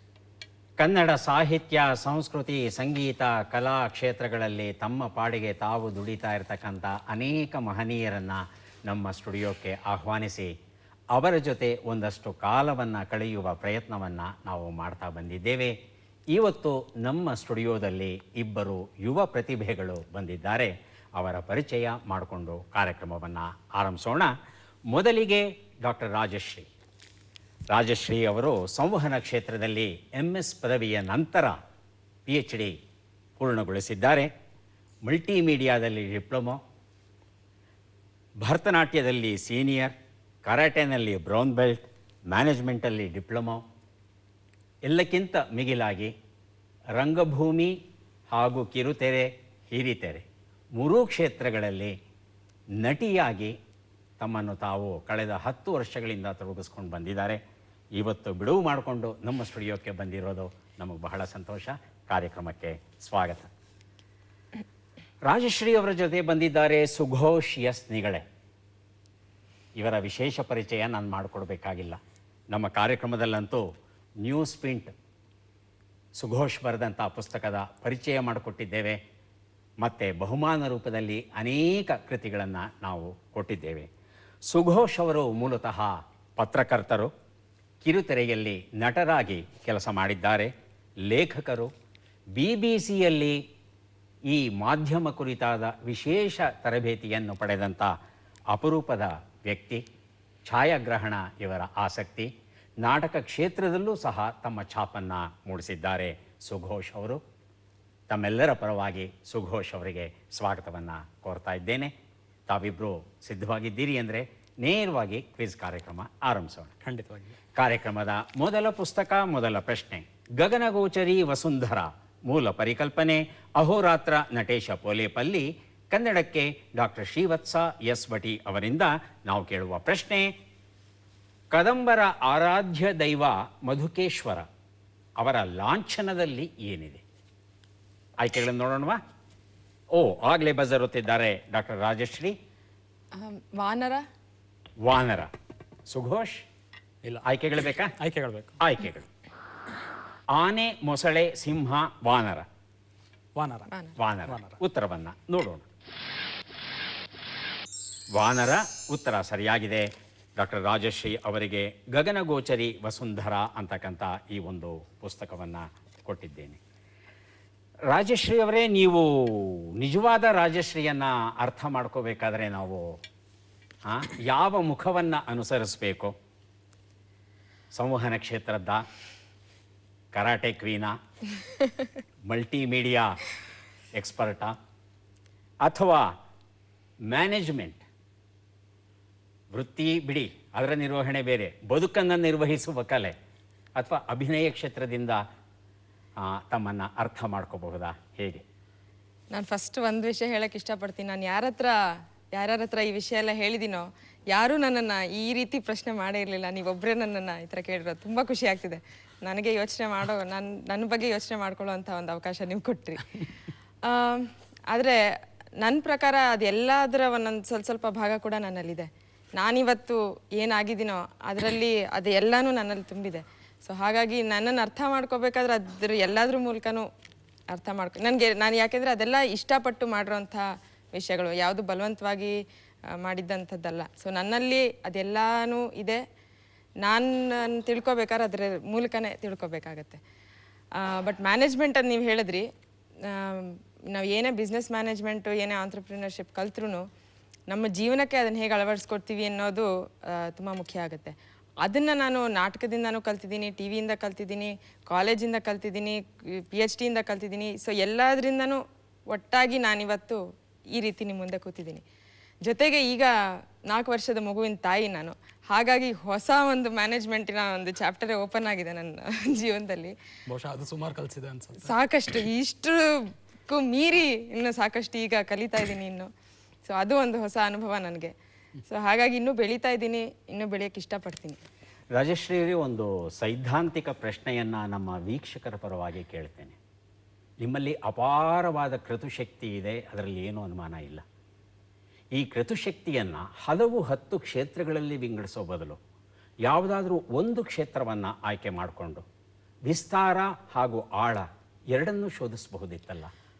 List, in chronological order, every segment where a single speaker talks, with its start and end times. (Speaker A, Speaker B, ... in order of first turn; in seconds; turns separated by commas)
Speaker A: 0.8-10.5, Speaker A: 11.1-15.7, Speaker A: 16.3-24.3, Speaker A: 24.9-26.7, Speaker A: 27.7-31.6, Speaker A: 32.3-32.7, Speaker A: 33.4-34.3, Speaker A: 35.0-36.6, Speaker A: 38.4-39.9, Speaker A: 40.4-43.6, Speaker A: 44.9-46.1, Speaker A: 47.0-47.7, Speaker A: 48.3-50.2, Speaker A: 50.8-51.9, Speaker A: 52.8-53.5, Speaker A: 54.2-57.4, Speaker A: 58.0-63.5, Speaker A: 65.2-68.2, Speaker A: 69.8-72.0, Speaker A: 72.5-73.6, Speaker A: 74.2-74.9, Speaker A: 76.2-79.0, Speaker A: 79.8-83.9, Speaker A: 84.5-87.1, Speaker A: 87.8-90.5, Speaker A: 91.1-91.7, Speaker A: 92.3-93.4, Speaker A: 94.3-97.9, Speaker A: 98.5-99.8, Speaker A: 100.5-102.3, Speaker A: 102.8-107.2, Speaker A: 108.1-111.9, Speaker A: 112.5-116.7, Speaker B: 116.8-117.3, Speaker A: 117.6-130.3, Speaker A: 131.5-134.4, Speaker A: 135.2-137.0, Speaker A: 138.2-139.0, Speaker A: 139.9-142.3, Speaker C: 143.2-144.0, Speaker A: 144.8-145.3, Speaker A: 145.9-146.4, Speaker A: 147.2-147.9, Speaker B: 148.0-148.6, Speaker A: 148.6-149.1, Speaker A: 150.3-152.4, Speaker B: 153.4-153.7, Speaker A: 154.0-155.6, Speaker B: 154.3-154.6, Speaker A: 158.1-166.6, Speaker A: 167.9-172.9, Speaker A: 173.9-176.1, Speaker A: 177.7-178.8, Speaker A: 180.1-180.9, Speaker A: 182.2-183.2, Speaker A: 183.9-184.5, Speaker A: 185.6-186.1, Speaker A: 187.1-187.8, Speaker A: 189.5-193.1, Speaker A: 193.8-195.2, Speaker A: 196.2-198.4, Speaker C: 199.3-201.7, Speaker C: 202.3-213.2, Speaker C: 213.8-215.0, Speaker C: 215.6-226.8, Speaker C: 227.5-232.4, Speaker C: 232.9-236.0, Speaker C: 236.8-240.0, Speaker C: 240.8-242.4, Speaker C: 243.1-246.8, Speaker C: 247.5-261.8, Speaker C: 262.4-263.1, Speaker C: 263.6-269.9, Speaker B: 270.3-271.7, Speaker C: 271.6-272.9, Speaker C: 273.5-276.1, Speaker C: 276.6-278.1, Speaker C: 278.6-281.4, Speaker A: 281.9-286.6, Speaker A: 287.4-291.0, Speaker A: 292.1-295.8, Speaker A: 296.4-299.0, Speaker A: 299.7-303.1